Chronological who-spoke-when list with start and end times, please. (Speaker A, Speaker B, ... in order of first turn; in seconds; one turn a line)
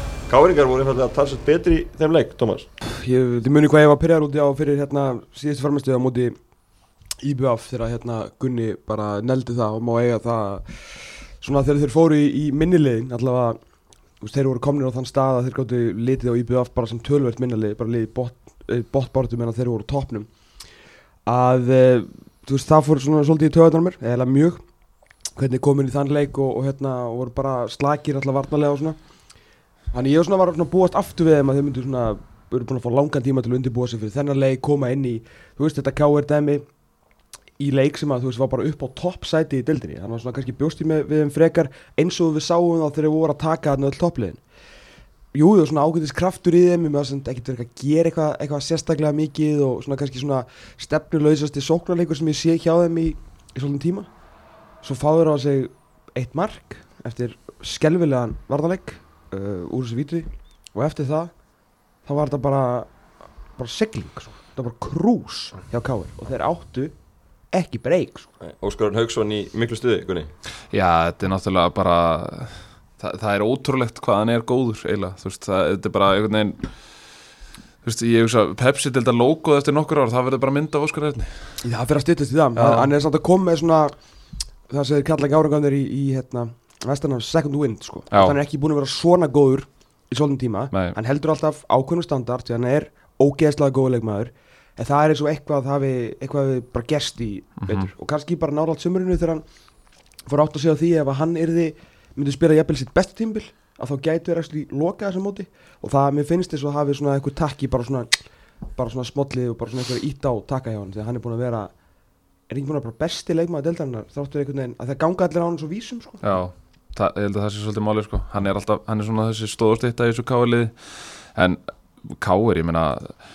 Speaker A: 0.3-2.7
Speaker B: 2.8-6.4
Speaker B: 7.2-13.6
Speaker B: 14.2-20.3
Speaker B: 21.2-24.6
Speaker B: 25.4-29.0
Speaker B: 29.9-36.7
Speaker B: 37.6-44.4
Speaker B: 45.3-54.1
Speaker B: 54.8-61.3
Speaker B: 62.0-62.9
Speaker B: 63.6-66.9
Speaker B: 67.5-68.3
Speaker A: 68.4-70.3
Speaker C: 70.7-76.7
Speaker C: 77.8-81.3
Speaker B: 81.6-83.9
Speaker C: 82.5-82.9
Speaker B: 84.7-99.4
Speaker C: 88.1-88.4
Speaker C: 97.6-97.9
Speaker B: 100.3-108.1
Speaker B: 108.8-111.7
Speaker B: 112.5-116.4
Speaker C: 116.2-120.7
Speaker C: 121.3-123.2